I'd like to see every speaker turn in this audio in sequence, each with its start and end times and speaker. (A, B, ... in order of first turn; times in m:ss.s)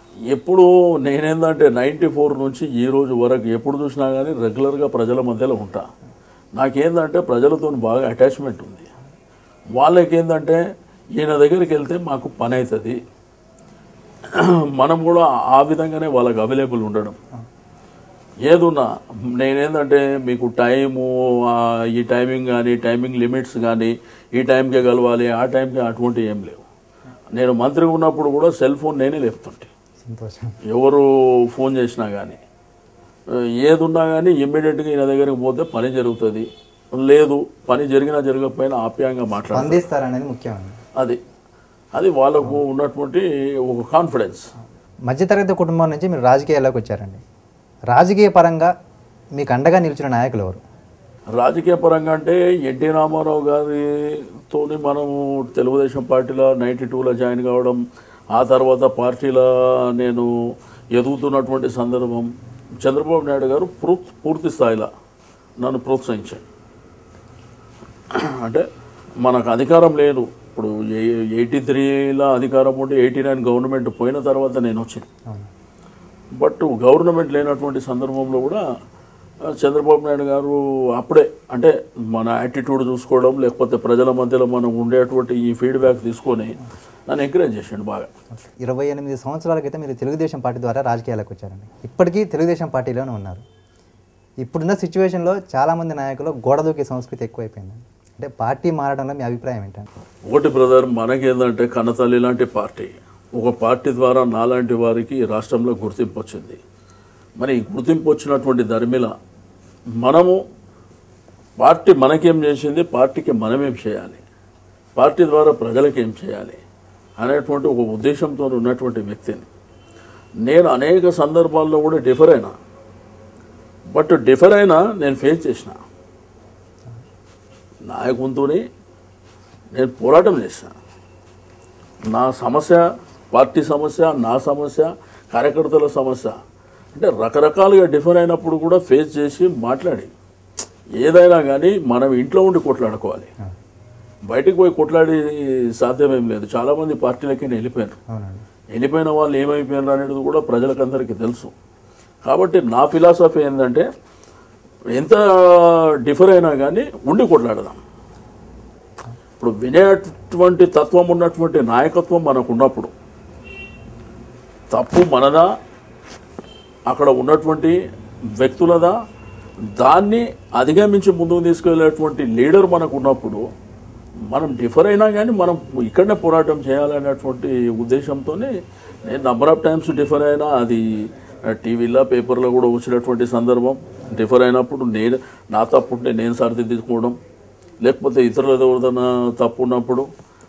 0:00.3-0:05.9 A
0:06.6-0:08.9 A
0:09.7-0:13.0 A
0:14.3-0:17.2 A
0:18.4-0:26.6 A
0:27.3-0:29.7 A
0:30.0-0:30.6 B
0:30.7-0:32.4 A
0:33.3-0:39.9 A
0:39.5-0:40.8 B
0:41.9-0:44.5 A
0:45.1-0:47.2 B
0:47.9-0:48.7 B
0:49.4-0:50.6 B
0:51.3-1:00.3 A
1:00.9-1:02.3 A
1:02.8-1:04.9 A
1:05.6-1:06.4 A
1:08.1-1:08.7 A
1:09.2-1:15.1 A
1:16.4-1:18.6 A
1:19.5-1:28.1 A
1:28.4-1:33.4 B
1:34.4-1:39.9 B
1:40.3-1:46.6 A
1:47.4-1:49.1 A
1:50.0-1:50.4 A
1:51.6-1:54.2 A
1:55.0-1:56.6 A
1:57.2-1:59.5 A
2:00.4-2:02.6 A
2:03.9-2:05.8 A
2:07.8-2:08.7 A
2:09.7-2:10.7 A
2:12.1-2:16.4 A
2:17.0-2:20.1 A
2:21.0-2:23.3 A
2:24.3-2:28.0 A
2:28.1-2:28.4 B
2:28.7-2:31.5 A
2:32.2-2:33.9 A
2:34.9-2:37.8 A
2:39.4-2:42.9 A
2:44.7-2:45.5 A
2:46.9-2:47.8 A
2:48.4-2:49.0 A
2:49.7-2:53.4 A
2:54.3-2:58.6 A
2:59.1-3:07.2 A
3:07.8-3:10.1 A